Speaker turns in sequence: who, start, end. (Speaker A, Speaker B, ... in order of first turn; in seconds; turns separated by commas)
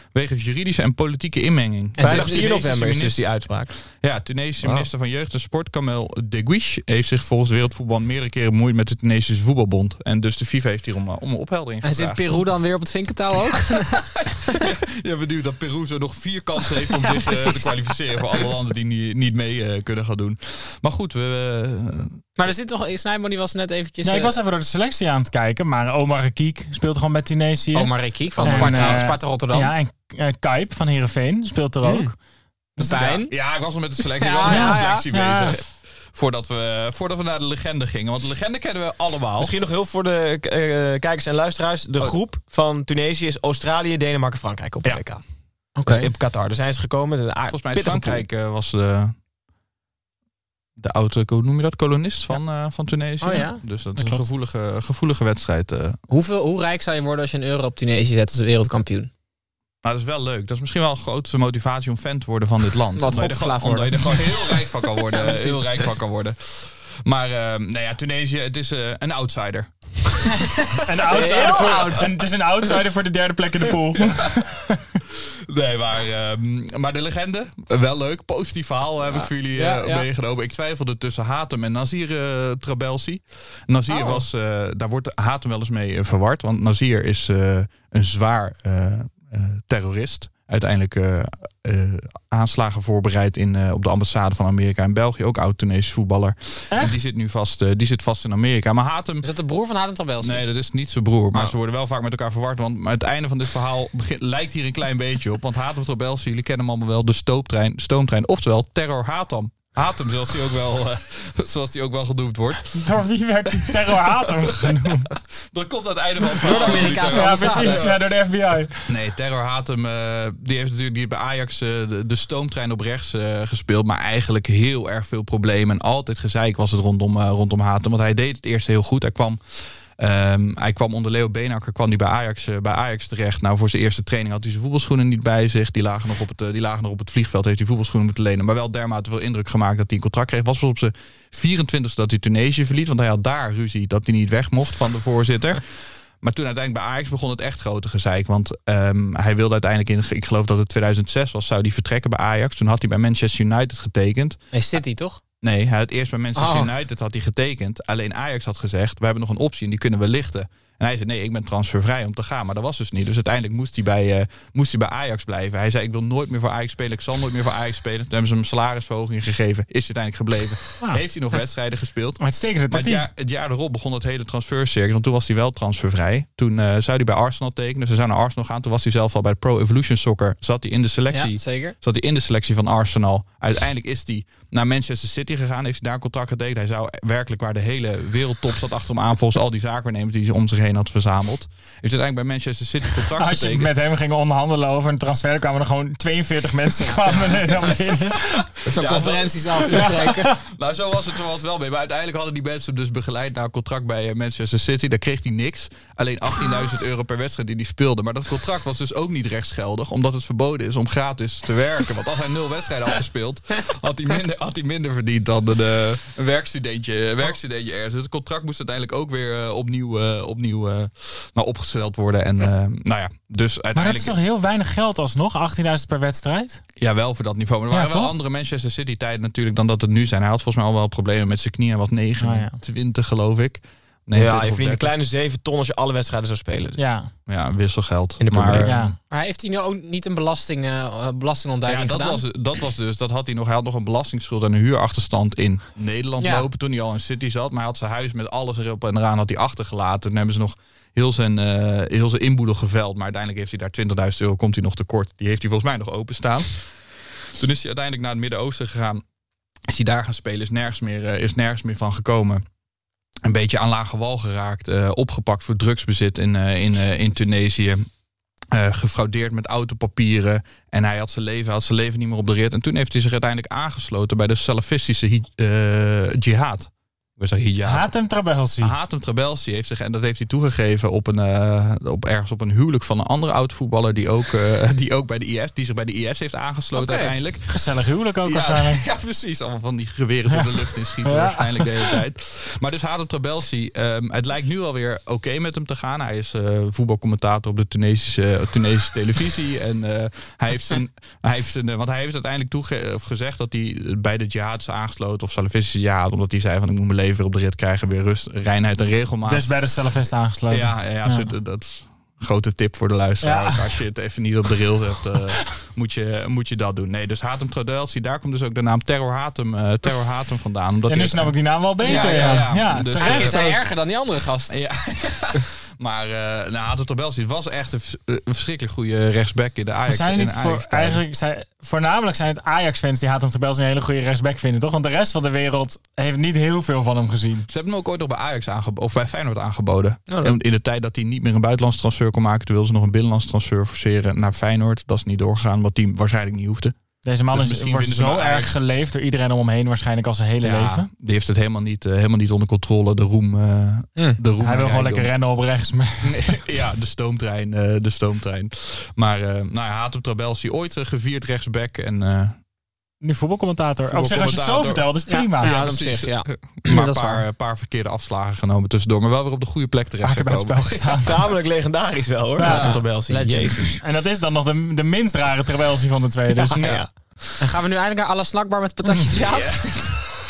Speaker A: 0.1-3.2, Speaker B: 2.0-2.5, Speaker C: 2.0-3.7, Speaker A: 3.9-12.5, Speaker C: 4.6-4.9, Speaker B: 11.8-14.3, Speaker A: 14.5-22.2, Speaker B: 17.1-17.8, Speaker B: 22.4-24.4, Speaker D: 24.0-32.1, Speaker B: 27.7-29.7, Speaker A: 28.4-29.0, Speaker C: 31.8-32.1, Speaker D: 32.8-33.1, Speaker B: 32.8-33.4, Speaker A: 33.1-39.6, Speaker B: 34.1-35.6, Speaker D: 34.5-35.5, Speaker C: 39.4-45.2, Speaker B: 45.8-46.1, Speaker C: 45.8-48.2, Speaker A: 47.5-49.1, Speaker A: 50.8-56.0, Speaker B: 53.2-53.6, Speaker D: 54.0-54.2, Speaker B: 56.1-59.1, Speaker A: 59.8-70.5, Speaker B: 63.0-65.9, Speaker D: 70.9-74.4, Speaker B: 71.1-72.1, Speaker A: 74.0-74.4, Speaker A: 75.1-99.3, Speaker B: 79.1-80.1, Speaker B: 83.9-84.2, Speaker D: 96.7-97.0, Speaker B: 99.2-100.4, Speaker A: 100.2-113.0, Speaker D: 112.8-115.1, Speaker A: 113.5-113.8, Speaker A: 115.3-118.0, Speaker B: 116.4-117.9, Speaker D: 116.7-118.9, Speaker A: 118.9-129.4, Speaker A: 130.0-145.6, Speaker A: 146.2-154.4, Speaker B: 154.5-155.2, Speaker A: 155.4-193.7, Speaker B: 156.3-156.7, Speaker D: 172.2-173.1, Speaker B: 181.1-181.8, Speaker D: 193.2-198.6, Speaker B: 196.9-197.7, Speaker B: 198.7-200.3, Speaker A: 198.7-199.9, Speaker D: 199.7-200.4, Speaker A: 200.5-224.2, Speaker D: 223.8-226.6, Speaker A: 226.8-234.9, Speaker D: 227.7-228.1, Speaker D: 232.2-232.6, Speaker C: 234.1-236.8, Speaker D: 236.8-237.1, Speaker A: 237.3-239.0, Speaker C: 238.2-238.7, Speaker D: 238.6-239.0, Speaker B: 239.1-242.2, Speaker A: 241.7-256.6, Speaker B: 246.2-246.5, Speaker A: 257.4-259.0, Speaker A: 259.7-262.4, Speaker A: 263.2-267.8, Speaker A: 268.5-277.9, Speaker D: 277.6-278.8, Speaker A: 278.6-287.6, Speaker B: 286.7-287.2, Speaker D: 287.5-288.8, Speaker A: 288.2-309.6, Speaker D: 291.1-292.0, Speaker D: 309.2-311.3, Speaker A: 310.5-323.6, Speaker D: 313.2-313.8, Speaker D: 320.9-323.5, Speaker B: 321.8-324.6, Speaker A: 324.5-331.0, Speaker D: 329.9-337.4, Speaker A: 337.5-346.8, Speaker B: 340.1-340.4, Speaker D: 347.0-350.9, Speaker A: 347.3-348.6, Speaker A: 350.4-355.1, Speaker D: 354.4-356.4, Speaker A: 356.0-362.4, Speaker D: 363.0-365.6, Speaker A: 363.9-364.9, Speaker B: 365.1-367.3, Speaker A: 365.4-370.9, Speaker D: 370.0-371.3, Speaker C: 371.0-373.8, Speaker D: 372.4-372.8, Speaker A: 372.4-372.8, Speaker B: 372.6-373.8, Speaker D: 373.8-376.5, Speaker A: 376.3-377.4, Speaker C: 376.5-376.9, Speaker B: 377.4-380.0, Speaker A: 379.2-379.5